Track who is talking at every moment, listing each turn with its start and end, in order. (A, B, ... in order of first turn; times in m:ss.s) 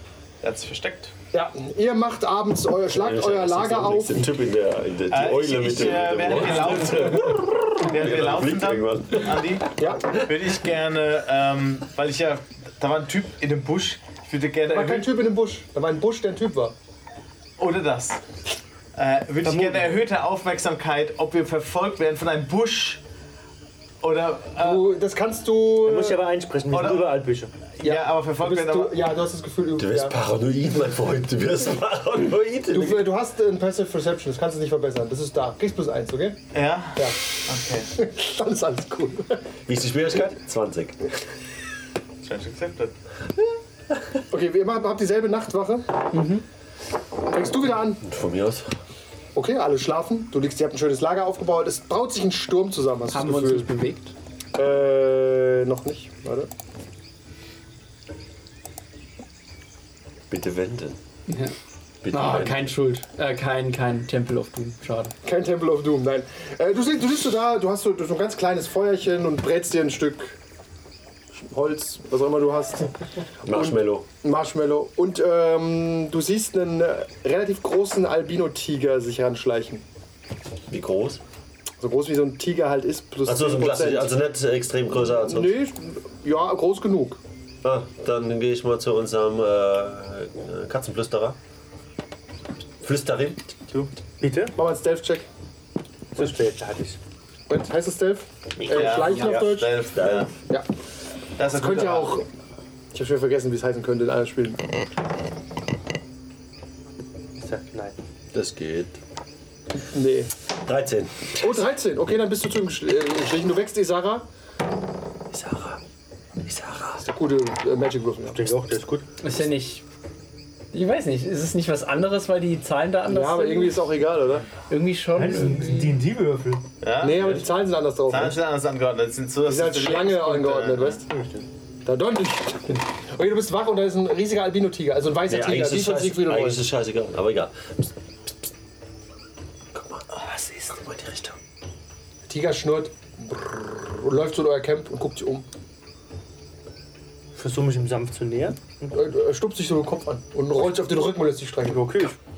0:00.4-0:01.1 A
0:01.3-0:04.3 B
0:02.9-0:09.4 C
0:05.1-0:15.1 A
0:09.8-0:10.2 B
0:14.7-0:16.8 B
0:17.6-0:18.2 A
0:19.0-0:23.0 A
0:19.4-0:20.0 D
0:24.0-0:24.9 A
0:24.6-0:26.2 B
0:25.8-0:27.5 D
0:26.7-0:27.1 A
0:27.7-0:29.0 A
0:27.8-0:30.2 B
0:29.8-0:33.1 C
0:32.7-0:36.4 B
0:36.5-0:37.9 A
0:37.9-0:39.4 B
0:39.7-0:41.0 C
0:42.2-0:42.9 A
0:44.3-0:45.9 B
0:46.1-0:46.4 E
0:47.3-0:48.0 B
0:48.0-0:48.7 C
0:49.4-0:53.7 B
0:53.1-0:54.1 E
0:54.6-0:56.5 B
1:00.3-1:01.0 C
1:01.3-1:01.5 E
1:02.0-1:02.7 C
1:02.1-1:05.1 E
1:05.2-1:10.4 B
1:11.3-1:12.9 B
1:13.4-1:14.1 C
1:13.5-1:19.8 B
1:20.7-1:21.2 C
1:21.8-1:24.2 B
1:23.2-1:25.6 C
1:25.2-1:27.2 B
1:27.6-1:31.4 C
1:32.8-1:33.5 C
1:33.7-1:34.6 D
1:34.6-1:35.3 B
1:36.2-1:37.0 D
1:37.5-1:39.8 B
1:38.6-1:40.3 C
1:38.6-1:40.3 A
1:41.4-1:42.2 A
1:41.5-1:42.3 B
1:42.9-1:44.6 B
1:47.4-1:48.0 D
1:48.3-1:49.0 C
1:49.9-1:50.3 B
1:50.6-1:51.6 C
1:51.4-1:54.3 B
1:55.3-1:55.8 C
1:56.4-1:57.1 C
1:57.0-1:58.6 B
1:58.3-1:59.1 D
1:59.2-1:59.8 E
2:00.7-2:03.8 E
2:03.1-2:04.5 B
2:04.7-2:05.9 E
2:05.2-2:06.6 D
2:06.8-2:07.4 A
2:07.0-2:08.4 B
2:08.1-2:11.0 A
2:09.4-2:11.0 B
2:11.1-2:11.5 D
2:11.8-2:16.7 B
2:15.3-2:18.3 C
2:19.7-2:20.0 C
2:20.2-2:20.7 D
2:20.7-2:21.4 C
2:22.3-2:25.5 B
2:27.4-2:29.0 D
2:28.9-2:31.9 B
2:31.6-2:32.2 D